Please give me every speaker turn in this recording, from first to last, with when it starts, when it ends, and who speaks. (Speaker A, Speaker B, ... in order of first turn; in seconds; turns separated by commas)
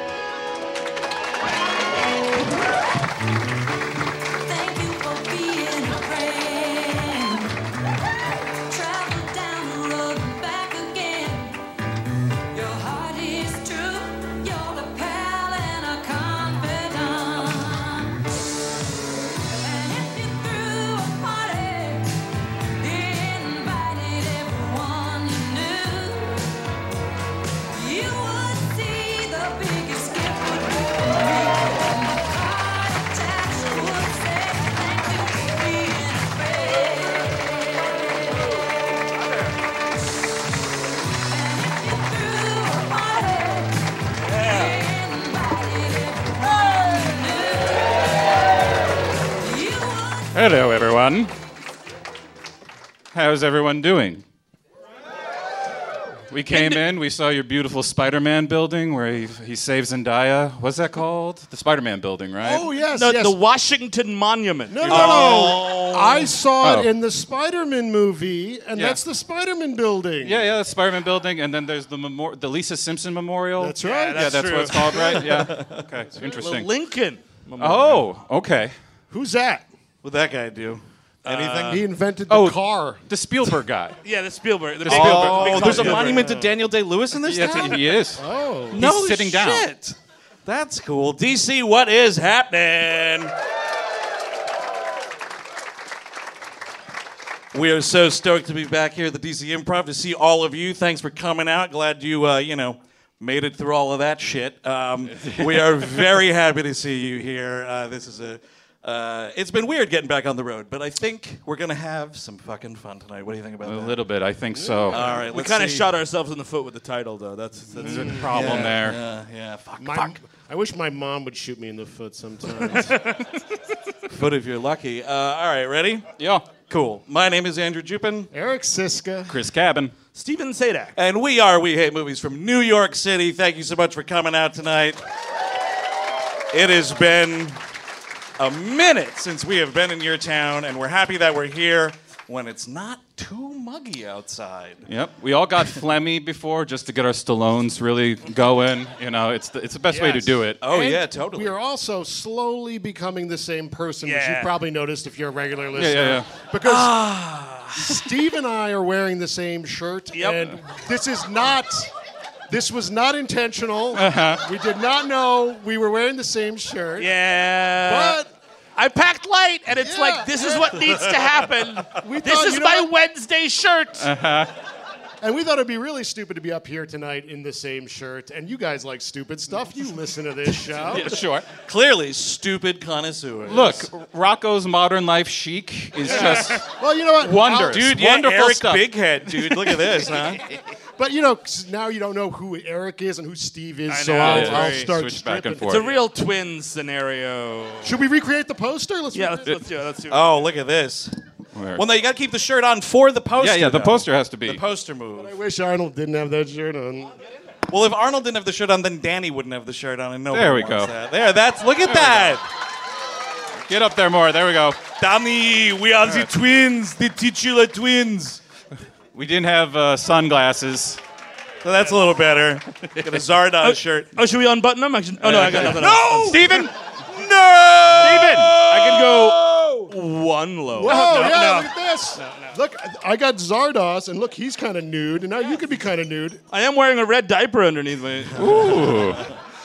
Speaker A: 4.4-7.5, Speaker A: 8.7-11.6, Speaker A: 12.5-18.3, Speaker A: 19.5-22.1, Speaker A: 22.8-26.5, Speaker A: 27.7-38.7, Speaker A: 41.1-48.1, Speaker B: 44.2-44.7, Speaker A: 49.3-50.5, Speaker C: 50.3-51.3, Speaker C: 53.1-54.2, Speaker C: 56.3-62.7, Speaker B: 56.5-56.8, Speaker D: 62.4-63.4, Speaker B: 62.9-65.5, Speaker D: 64.7-70.5, Speaker E: 64.8-66.3, Speaker C: 66.6-66.9, Speaker C: 70.2-76.7, Speaker D: 73.6-74.6, Speaker B: 73.8-75.1, Speaker E: 74.9-75.8, Speaker B: 76.2-78.0, Speaker C: 77.6-78.7, Speaker D: 79.1-79.7, Speaker E: 80.0-81.8, Speaker B: 81.2-81.8, Speaker D: 81.7-83.0, Speaker C: 82.3-84.0, Speaker B: 84.0-86.3, Speaker C: 84.8-86.2, Speaker E: 84.8-88.0, Speaker D: 86.0-86.5, Speaker C: 87.2-88.2, Speaker D: 88.2-88.8, Speaker C: 88.7-89.7, Speaker E: 88.7-93.3, Speaker E: 97.5-114.0, Speaker C: 105.1-106.1, Speaker C: 113.6-115.1, Speaker D: 114.5-115.2, Speaker E: 114.9-115.9, Speaker B: 115.1-118.7, Speaker C: 117.8-119.0, Speaker E: 117.8-120.2, Speaker D: 117.9-118.3, Speaker D: 119.8-123.2, Speaker E: 124.1-126.1, Speaker C: 126.2-126.4, Speaker E: 126.6-128.3, Speaker D: 128.3-129.3, Speaker C: 129.3-129.9, Speaker B: 130.1-130.9, Speaker E: 130.9-135.0, Speaker E: 136.5-137.6, Speaker E: 138.4-144.8, Speaker C: 144.9-150.6, Speaker B: 149.9-150.4, Speaker E: 150.6-151.5, Speaker D: 150.7-157.0, Speaker B: 154.0-154.5, Speaker C: 155.7-156.3, Speaker B: 156.7-157.7, Speaker D: 157.7-161.9, Speaker B: 160.1-160.6, Speaker D: 162.5-167.1, Speaker C: 163.9-164.4, Speaker B: 167.0-168.2, Speaker D: 167.7-168.3, Speaker B: 168.8-174.1, Speaker D: 169.8-170.8, Speaker D: 172.0-172.9, Speaker C: 174.0-174.5, Speaker D: 175.2-181.2, Speaker C: 180.9-181.5, Speaker E: 181.6-183.9, Speaker C: 183.4-189.7, Speaker D: 186.1-187.9, Speaker E: 187.7-190.4, Speaker D: 190.4-196.1, Speaker B: 193.9-194.9, Speaker C: 194.2-195.9, Speaker B: 195.6-198.0, Speaker D: 197.8-199.6, Speaker B: 199.1-200.5, Speaker E: 200.1-201.2, Speaker C: 201.5-201.8, Speaker E: 201.7-205.3, Speaker C: 203.4-204.6, Speaker D: 205.2-207.1, Speaker E: 207.7-212.4, Speaker C: 210.3-210.9, Speaker C: 211.8-212.4, Speaker C: 213.7-214.8, Speaker E: 215.0-218.4, Speaker C: 216.0-216.3, Speaker C: 219.1-221.0, Speaker E: 221.6-224.1, Speaker B: 223.6-226.5, Speaker C: 225.2-226.7, Speaker E: 225.3-229.9, Speaker C: 227.9-228.6, Speaker B: 228.0-232.5, Speaker D: 230.7-236.4, Speaker B: 236.5-238.9, Speaker C: 238.4-239.3